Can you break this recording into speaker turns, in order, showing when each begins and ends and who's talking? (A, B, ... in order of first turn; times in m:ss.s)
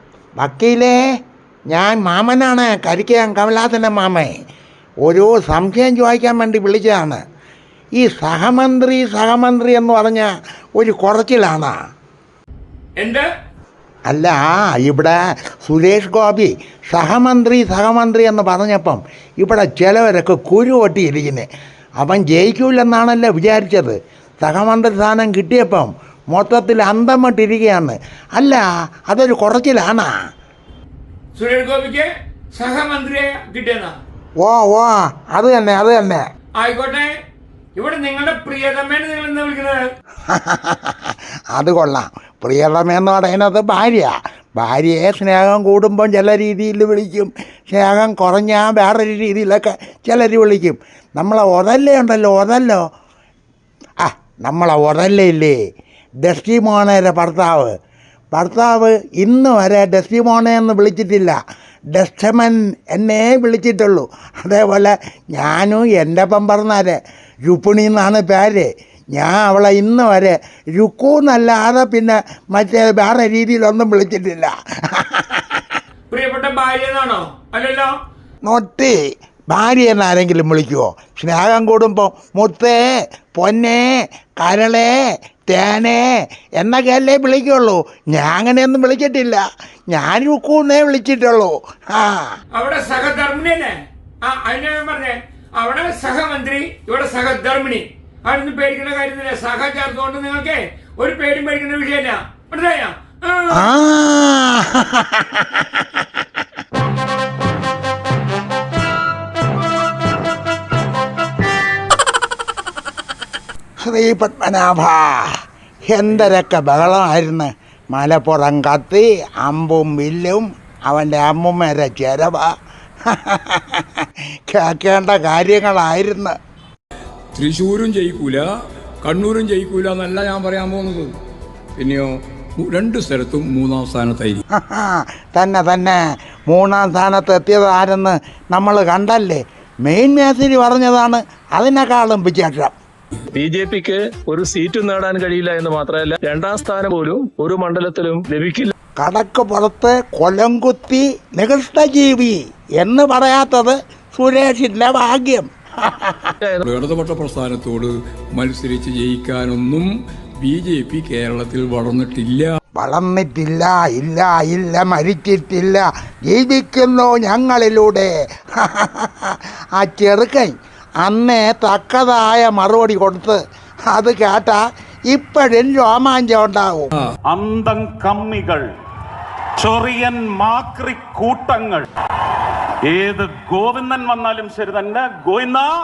0:00.4-0:01.0 A
0:01.7-0:04.3 A
0:05.0-0:07.2 A
0:08.0-0:11.8 A
0:13.0-0:13.3 B
0:14.1-0:21.5 A
0:22.0-0:30.1 A
0:31.4-0:34.0 B
0:34.4-0:36.2 A
0:36.6-0:37.1 B
0:37.8-0:39.8 B
0:40.3-0:52.8 A
0:54.0-0:55.6 A
0:56.2-0:57.7 A
0:58.3-1:01.4 A
1:01.9-1:15.6 A
1:16.1-1:18.0 B
1:18.4-1:19.0 A
1:19.5-1:24.9 A
1:25.5-1:26.0 A
1:26.6-1:32.4 A
1:32.5-1:43.7 B
1:43.5-1:45.8 A
1:53.8-1:55.4 A
1:55.9-2:02.5 A
2:03.1-2:06.4 A
2:07.3-2:08.5 C
2:09.0-2:11.1 C
2:11.8-2:14.4 C
2:14.5-2:22.7 A
2:23.3-2:28.7 D
2:29.0-2:36.3 A
2:36.6-2:42.6 C
2:42.8-2:53.4 A
2:53.9-2:56.9 A
2:57.3-2:58.6 E
2:59.6-3:01.9 E
3:02.9-3:05.7 E